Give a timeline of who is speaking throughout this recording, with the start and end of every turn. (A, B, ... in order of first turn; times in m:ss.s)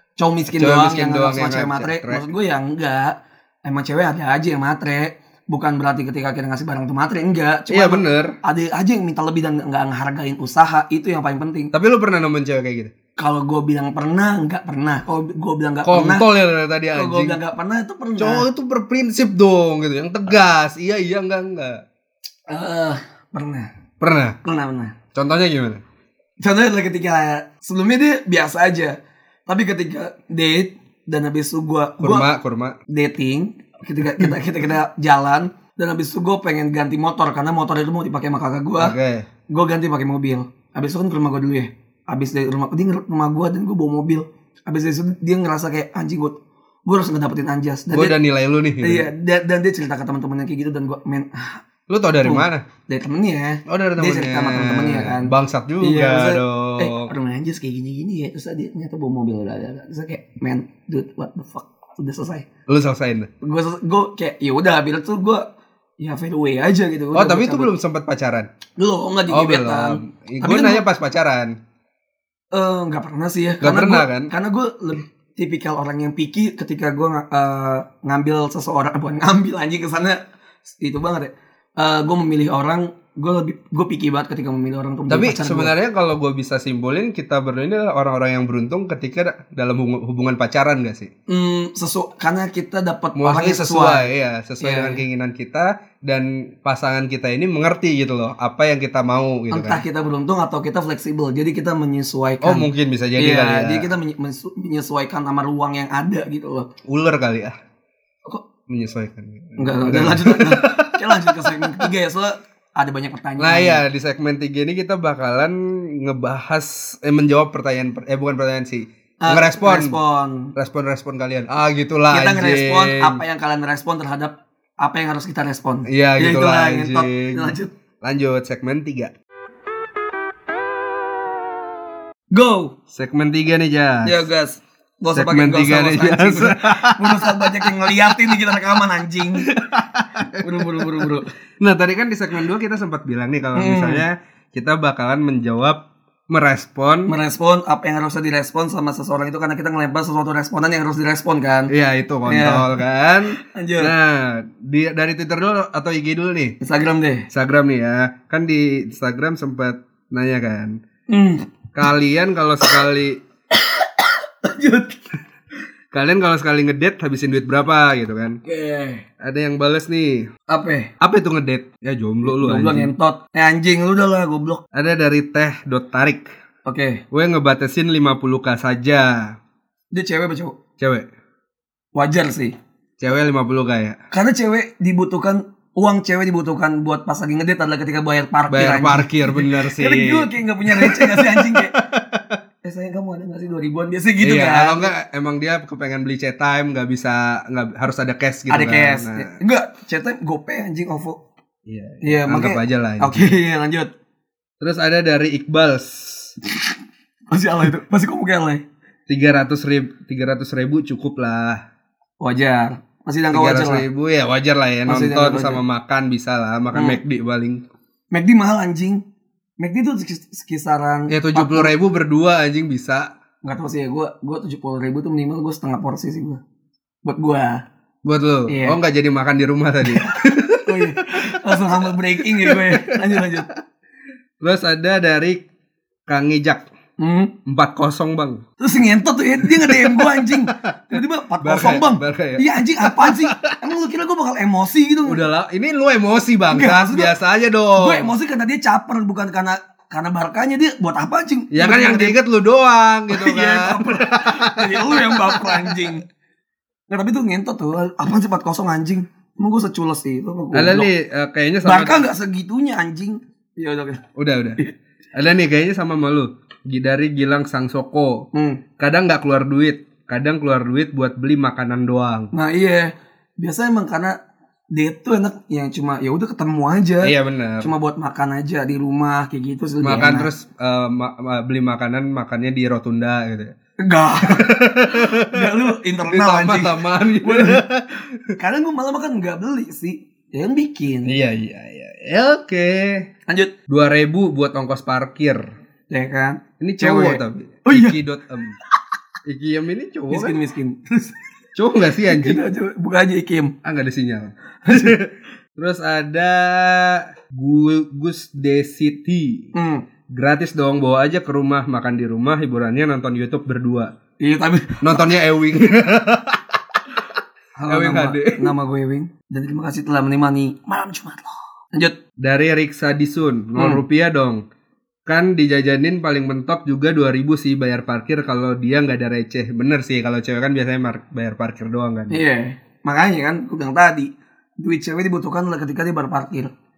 0:00.2-0:11.7 A
0:00.6-0:02.2 B
0:07.7-0:08.4 B
0:11.7-0:12.9 B
0:13.2-0:16.2 A
0:15.8-0:17.4 B
0:16.9-0:18.4 A
0:18.2-0:21.8 B
0:22.5-0:23.7 A
0:24.0-0:24.4 B
0:24.4-0:25.0 A
0:25.1-0:25.8 B
0:26.4-0:32.3 A
0:32.0-0:32.8 B
0:32.9-0:39.0 A
0:38.8-0:39.3 B
0:39.5-0:48.2 A
0:47.9-0:49.1 B
0:48.8-0:51.6 A
0:51.9-0:52.6 B
0:52.2-1:02.5 A
0:53.6-0:57.1 B
1:02.7-1:03.3 B
1:03.4-1:05.4 A
1:06.0-1:07.7 A
1:07.1-1:08.5 B
1:08.8-1:10.9 A
1:09.3-1:11.5 B
1:12.5-1:25.7 A
1:13.6-1:14.3 B
1:25.1-1:31.1 B
1:31.3-1:35.0 A
1:33.2-1:39.8 B
1:39.5-1:46.7 A
1:42.4-1:43.9 B
1:46.8-1:47.6 B
1:48.7-1:51.9 B
1:49.6-1:53.8 A
1:53.4-2:00.0 B
1:59.2-2:00.5 A
2:00.5-2:03.2 B
2:02.1-2:07.7 A
2:05.9-2:09.1 B
2:12.3-2:12.8 A
2:12.9-2:14.2 B
2:14.0-2:19.6 A
2:15.1-2:17.7 B
2:19.4-2:27.1 B
2:20.3-2:21.3 A
2:23.5-2:24.0 A
2:27.1-2:31.7 A
2:31.7-2:36.6 B
2:32.3-2:32.7 A
2:33.4-2:33.9 A
2:36.6-2:37.3 A
2:37.3-2:40.8 B
2:41.1-2:41.4 A
2:41.7-2:43.2 B
2:43.6-2:45.0 A
2:45.9-2:48.4 B
2:48.4-2:49.0 A
2:49.2-2:50.3 B
2:50.5-2:50.9 A
2:51.0-2:52.9 B
2:52.3-2:54.6 A
2:54.7-2:56.3 B
2:56.6-2:57.0 A
2:57.1-2:59.4 B
2:59.9-3:00.6 A
3:00.8-3:01.1 B
3:01.9-3:02.5 A
3:03.0-3:04.0 B
3:04.1-3:11.8 A
3:08.5-3:12.4 B
3:12.6-3:14.9 A
3:14.2-3:19.3 B
3:18.5-3:21.2 A
3:21.6-3:23.3 B
3:22.0-3:23.9 A
3:24.6-3:26.3 B
3:27.3-3:28.6 A
3:29.1-3:31.6 B
3:32.2-3:33.8 A
3:33.3-3:37.6 B
3:34.9-3:35.6 A
3:36.7-3:37.0 A
3:38.1-3:39.0 A
3:39.6-3:41.7 A
3:41.1-3:43.1 B
3:43.4-3:46.4 A
3:47.0-3:47.6 A
3:48.0-3:53.4 B
3:48.5-3:48.8 A
3:49.8-3:53.5 A
3:54.4-3:55.4 B
3:56.1-3:56.6 B
3:57.0-3:57.3 A
3:57.4-3:58.4 B
3:58.6-4:05.2 A
3:59.4-4:03.5 B
4:05.0-4:08.1 B
4:06.5-4:07.1 A
4:07.8-4:12.2 A
4:11.5-4:15.9 B
4:13.1-4:16.0 A
4:16.9-4:20.9 A
4:20.5-4:22.0 B
4:21.6-4:24.0 A
4:24.2-4:24.6 B
4:25.1-4:28.3 B
4:28.3-4:28.6 A
4:28.8-4:32.3 B
4:32.3-4:34.2 A
4:34.7-4:40.3 A
4:37.0-4:37.7 B
4:39.8-4:43.5 B
4:43.8-4:47.6 A
4:44.2-4:48.3 B
4:48.4-4:51.1 A
4:51.0-4:53.1 B
4:53.3-4:53.5 A
4:53.7-4:55.5 B
4:55.9-4:58.0 A
4:56.6-4:58.6 B
4:59.2-5:00.4 B
5:00.1-5:01.2 A
5:01.5-5:02.4 B
5:02.0-5:03.5 A
5:03.6-5:09.5 B
5:04.6-5:05.0 A
5:09.5-5:09.8 A
5:10.1-5:13.9 B
5:14.2-5:15.1 A
5:14.8-5:16.4 B
5:17.6-5:22.0 A
5:17.7-5:18.5 B
5:22.2-5:24.4 B
5:23.6-5:23.8 A
5:25.0-5:32.2 B
5:32.1-5:36.5 A